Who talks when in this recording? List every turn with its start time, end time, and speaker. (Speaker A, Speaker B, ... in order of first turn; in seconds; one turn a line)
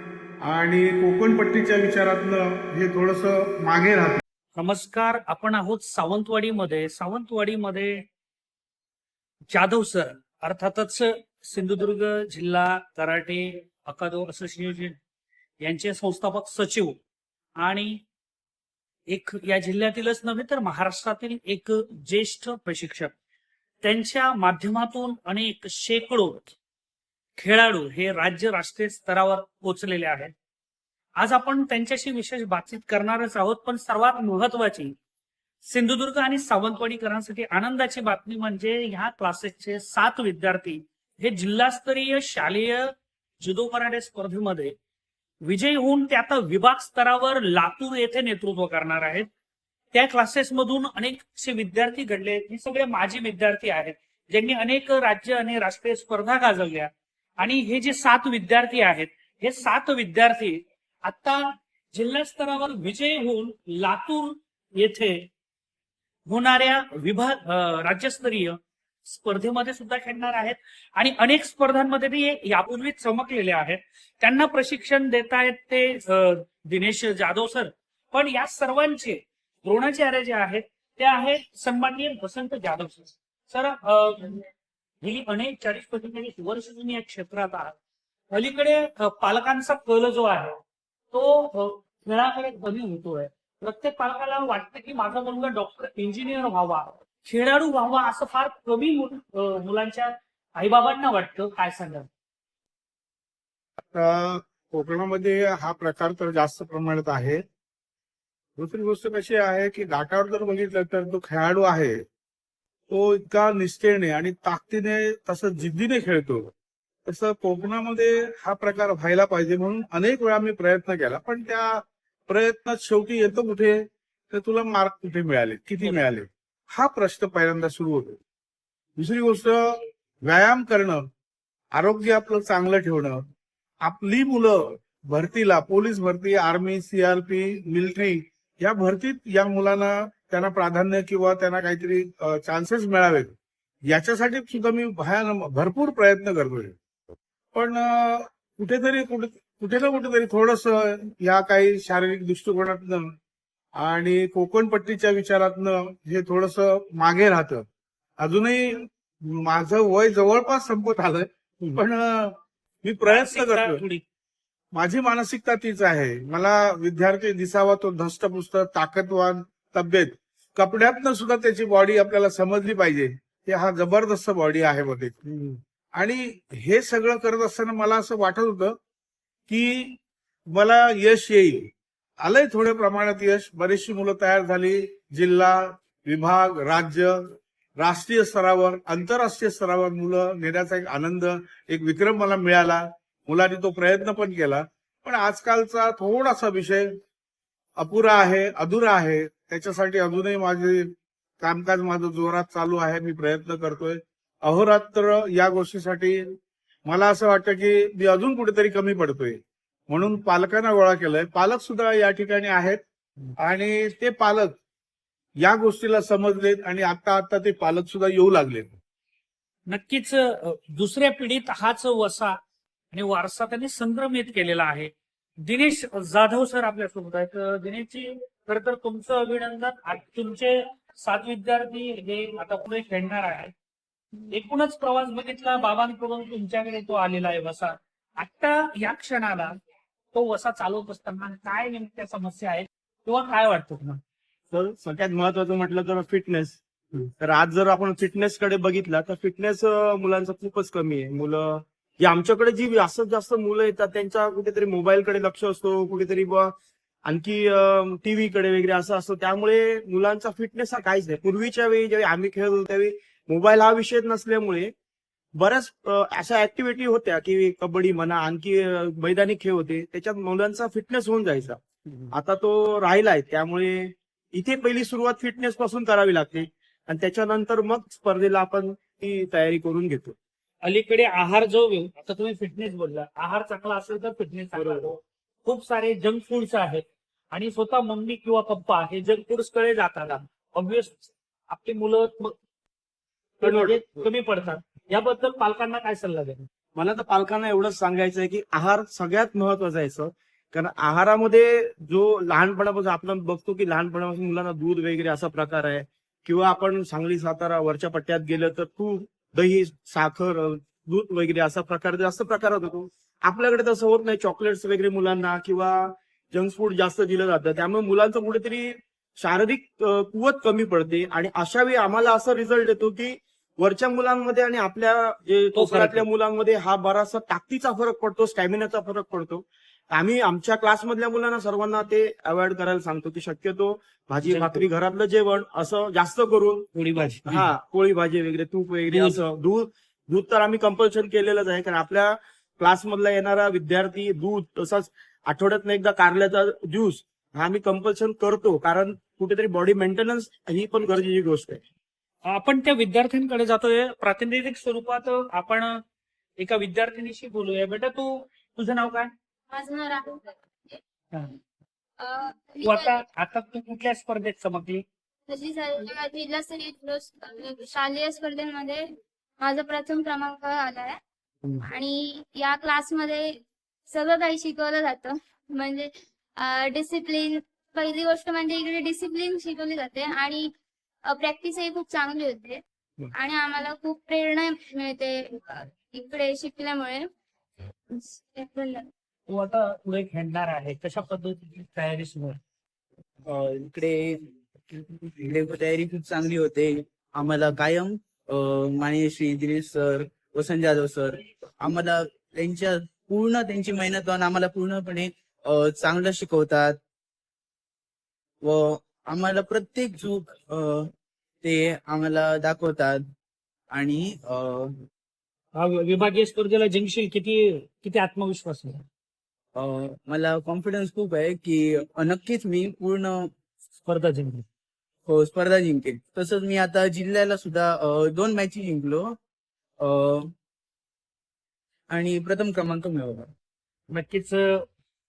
Speaker A: 0.4-4.2
Speaker B: 4.5-8.0
Speaker B: 9.5-15.0
Speaker B: 15.6-17.0
Speaker B: 17.6-18.0
Speaker B: 19.1-23.1
Speaker B: 23.8-26.5
Speaker B: 27.4-30.3
Speaker B: 31.2-34.9
Speaker B: 35.6-42.9
Speaker B: 43.4-44.7
Speaker B: 45.4-49.3
Speaker B: 49.9-65.3
Speaker B: 66.3-68.5
Speaker B: 69.1-84.4
Speaker B: 85.0-87.7
Speaker B: 88.3-90.6
Speaker B: 91.1-102.1
Speaker A: 103.9-107.4
Speaker A: 108.6-112.0
Speaker A: 112.9-116.5
Speaker A: 117.0-128.2
Speaker A: 129.0-131.1
Speaker A: 131.7-133.2
Speaker A: 133.8-143.3
Speaker A: 143.9-146.8
Speaker A: 147.5-153.1
Speaker A: 153.8-157.6
Speaker A: 158.2-163.8
Speaker B: 163.1-164.0
Speaker A: 164.7-175.4
Speaker A: 175.9-178.8
Speaker A: 179.5-180.0
Speaker A: 180.5-181.7
Speaker A: 182.2-196.9
Speaker A: 197.8-206.2
Speaker A: 206.8-212.8
Speaker A: 213.4-214.6
Speaker A: 215.4-218.8
Speaker B: 219.7-222.4
Speaker B: 222.9-224.9
Speaker B: 225.4-233.5
Speaker B: 234.3-239.5
Speaker B: 240.1-244.0
Speaker C: 244.5-246.6
Speaker C: 247.2-256.5
Speaker C: 257.1-264.7
Speaker C: 265.4-271.6
Speaker C: 272.1-280.1
Speaker B: 280.6-292.4
Speaker C: 284.6-284.9
Speaker B: 293.4-296.4
Speaker C: 293.4-294.0
Speaker C: 296.8-351.6
Speaker B: 325.5-326.1
Speaker B: 334.3-334.6
Speaker B: 336.7-337.5
Speaker B: 338.9-339.2
Speaker B: 352.3-355.8
Speaker B: 356.4-359.1
Speaker D: 359.5-360.1
Speaker B: 362.6-364.8
Speaker D: 365.3-368.8
Speaker D: 369.4-370.9
Speaker D: 371.7-373.4
Speaker D: 373.9-375.9
Speaker D: 376.4-380.5
Speaker D: 381.1-382.6
Speaker D: 383.2-385.1
Speaker D: 386.0-387.0
Speaker D: 388.4-388.7
Speaker B: 389.3-392.4
Speaker E: 393.2-394.2
Speaker E: 394.7-406.8
Speaker E: 408.4-410.9
Speaker E: 411.4-413.0
Speaker E: 413.7-414.7
Speaker B: 415.5-418.8
Speaker E: 419.5-423.3
Speaker B: 423.8-424.4
Speaker E: 425.1-429.2
Speaker E: 429.8-430.3
Speaker E: 431.9-433.3
Speaker B: 433.9-434.6